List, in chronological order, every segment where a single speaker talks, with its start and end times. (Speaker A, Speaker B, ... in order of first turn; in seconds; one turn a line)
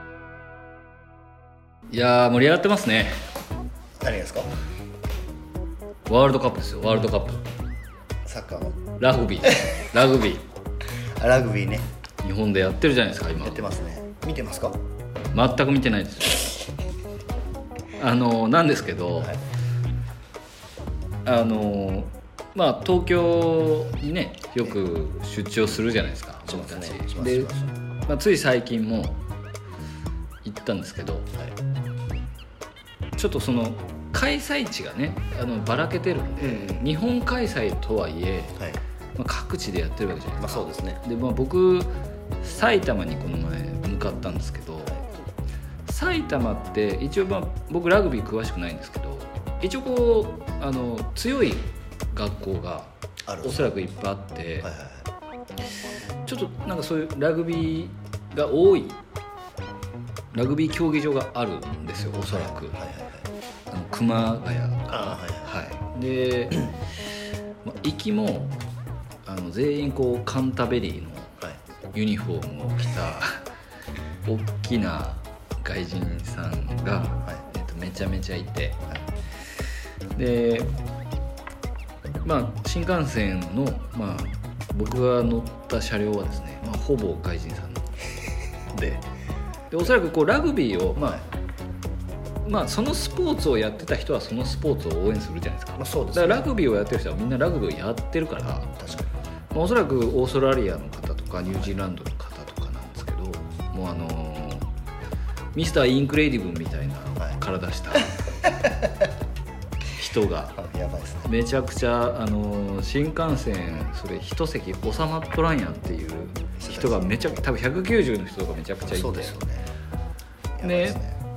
Speaker A: 1.9-3.2
Speaker B: 4.0-4.5
Speaker A: 6.1-7.4
Speaker B: 8.3-8.8
Speaker A: 9.0-10.4
Speaker B: 9.4-9.7
Speaker B: 11.2-11.9
Speaker A: 12.2-13.7
Speaker B: 13.4-14.8
Speaker A: 15.3-16.5
Speaker A: 18.0-19.3
Speaker A: 21.2-27.5
Speaker B: 26.4-27.7
Speaker A: 28.1-29.2
Speaker A: 30.4-31.3
Speaker A: 33.2-38.6
Speaker B: 36.4-36.9
Speaker A: 39.2-45.0
Speaker B: 40.4-41.0
Speaker A: 45.9-54.7
Speaker B: 53.3-53.7
Speaker B: 54.6-55.1
Speaker A: 56.2-59.0
Speaker A: 60.3-62.8
Speaker B: 62.3-63.3
Speaker A: 63.7-66.7
Speaker B: 64.9-65.7
Speaker A: 67.6-68.5
Speaker A: 69.2-71.4
Speaker A: 71.9-73.4
Speaker A: 74.2-78.8
Speaker A: 80.2-80.7
Speaker A: 82.2-87.9
Speaker A: 88.7-89.0
Speaker A: 89.7-91.2
Speaker A: 92.5-98.7
Speaker B: 95.8-96.5
Speaker B: 98.8-99.1
Speaker A: 99.5-104.7
Speaker A: 105.5-108.3
Speaker B: 108.2-109.1
Speaker A: 110.0-110.6
Speaker B: 110.5-111.3
Speaker A: 111.2-119.3
Speaker B: 116.6-117.1
Speaker B: 118.9-119.7
Speaker B: 120.6-121.2
Speaker A: 120.6-121.0